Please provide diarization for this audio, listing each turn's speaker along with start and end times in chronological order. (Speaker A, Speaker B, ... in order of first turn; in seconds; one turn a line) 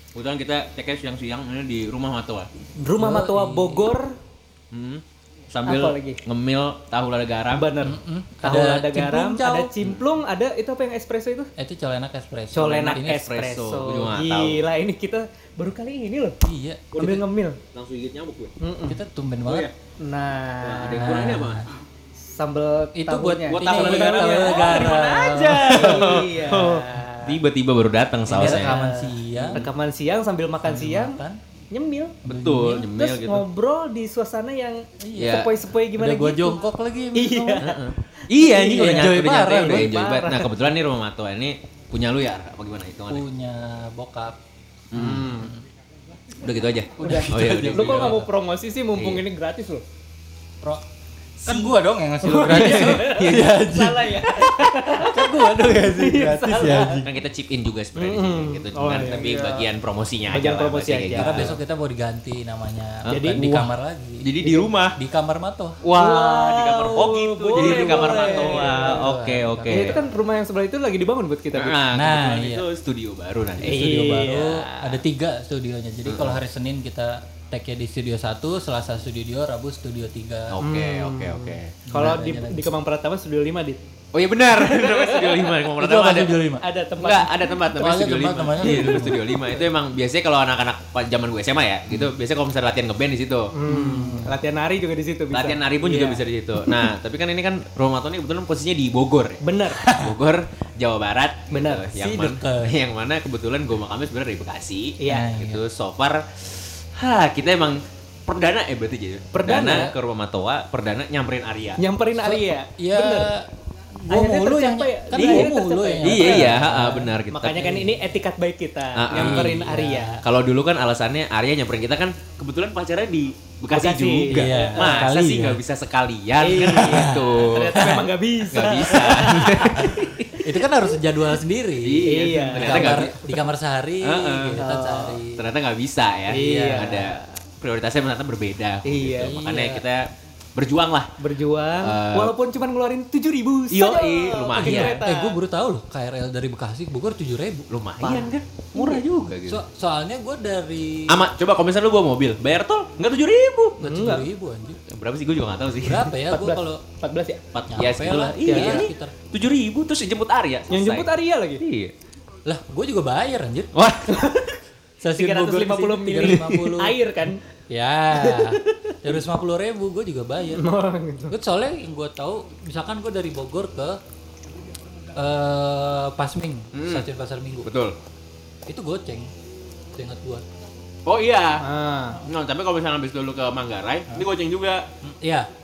Speaker A: 0.1-2.5
Speaker B: 2.8-4.1
Speaker C: 3.0-3.9
Speaker A: 4.7-7.7
Speaker B: 5.7-6.2
Speaker B: 7.5-11.5
Speaker C: 7.8-9.7
Speaker C: 11.6-13.2
Speaker B: 12.5-16.4
Speaker A: 12.7-14.6
Speaker C: 16.4-17.2
Speaker A: 16.9-17.2
Speaker B: 17.0-17.6
Speaker A: 17.7-18.5
Speaker B: 18.6-19.0
Speaker C: 18.9-19.7
Speaker B: 20.0-21.2
Speaker A: 20.6-21.7
Speaker C: 21.0-21.7
Speaker B: 22.2-27.4
Speaker C: 23.0-26.2
Speaker A: 23.5-28.8
Speaker C: 28.3-29.6
Speaker B: 28.4-31.2
Speaker A: 29.4-29.7
Speaker C: 30.6-31.4
Speaker B: 31.7-32.3
Speaker C: 32.3-32.9
Speaker A: 32.3-33.5
Speaker B: 32.8-36.6
Speaker C: 35.0-35.4
Speaker A: 35.2-35.5
Speaker C: 36.0-37.7
Speaker B: 37.1-37.8
Speaker A: 37.6-43.2
Speaker B: 38.4-40.6
Speaker C: 38.4-39.9
Speaker C: 43.1-44.4
Speaker A: 44.9-45.5
Speaker C: 45.0-45.6
Speaker B: 45.0-45.5
Speaker A: 46.4-48.2
Speaker C: 47.0-48.3
Speaker B: 47.0-49.8
Speaker A: 49.0-49.2
Speaker A: 51.4-53.6
Speaker C: 51.4-57.1
Speaker B: 52.2-57.0
Speaker A: 57.0-61.6
Speaker B: 58.0-59.7
Speaker B: 60.3-61.5
Speaker C: 61.1-64.3
Speaker A: 63.0-65.0
Speaker B: 63.1-63.5
Speaker B: 64.4-64.7
Speaker C: 65.0-65.8
Speaker A: 65.8-70.0
Speaker B: 66.0-69.1
Speaker C: 67.6-70.0
Speaker B: 69.7-71.8
Speaker A: 71.5-73.9
Speaker C: 71.9-72.7
Speaker C: 73.6-80.6
Speaker B: 73.6-75.0
Speaker A: 76.1-76.4
Speaker A: 80.5-81.8
Speaker B: 80.6-83.8
Speaker C: 81.9-82.7
Speaker A: 84.1-86.4
Speaker B: 84.5-85.7
Speaker C: 85.8-86.7
Speaker B: 86.6-87.4
Speaker A: 87.0-93.5
Speaker C: 87.7-89.5
Speaker B: 88.6-89.6
Speaker B: 93.5-96.9
Speaker C: 93.7-94.3
Speaker A: 95.3-111.8
Speaker B: 99.4-99.8
Speaker C: 99.8-100.2
Speaker B: 101.5-102.0
Speaker C: 102.0-102.8
Speaker B: 105.0-105.3
Speaker C: 105.1-105.6
Speaker C: 109.4-110.0
Speaker B: 111.8-113.3
Speaker C: 112.2-117.2
Speaker B: 114.1-116.7
Speaker A: 115.1-115.5
Speaker A: 116.0-117.9
Speaker B: 117.3-120.2
Speaker A: 119.0-128.0
Speaker C: 119.1-120.2
Speaker B: 123.7-125.0
Speaker C: 124.3-125.6
Speaker B: 126.4-131.0
Speaker C: 126.7-128.1
Speaker A: 128.5-130.1
Speaker C: 129.7-135.5
Speaker A: 131.8-133.2
Speaker B: 132.0-133.3
Speaker A: 134.0-141.2
Speaker B: 134.6-135.2
Speaker B: 136.3-137.4
Speaker C: 136.4-137.0
Speaker B: 138.8-139.4
Speaker C: 139.2-139.8
Speaker B: 141.2-145.4
Speaker A: 141.8-142.3
Speaker A: 143.7-145.0
Speaker C: 144.6-147.7
Speaker A: 147.7-149.6
Speaker B: 148.0-149.0
Speaker C: 149.5-151.3
Speaker A: 151.1-153.8
Speaker C: 153.8-154.8
Speaker B: 153.8-154.2
Speaker A: 154.9-156.1
Speaker C: 155.8-156.8
Speaker B: 156.3-157.4
Speaker A: 157.5-161.9
Speaker C: 157.7-159.1
Speaker B: 158.5-158.9
Speaker B: 160.7-161.6
Speaker C: 162.5-163.9
Speaker A: 163.7-164.5
Speaker B: 164.1-164.5
Speaker C: 165.0-167.0
Speaker B: 165.2-167.4
Speaker A: 166.2-166.6
Speaker C: 167.7-170.6
Speaker B: 168.1-169.0
Speaker B: 170.6-171.3
Speaker C: 171.3-174.0
Speaker C: 175.2-177.7
Speaker A: 176.7-177.1
Speaker A: 177.7-178.0
Speaker C: 178.7-179.3
Speaker C: 179.9-180.4
Speaker A: 181.1-181.7
Speaker B: 181.6-182.2
Speaker A: 182.2-184.9
Speaker C: 185.0-185.5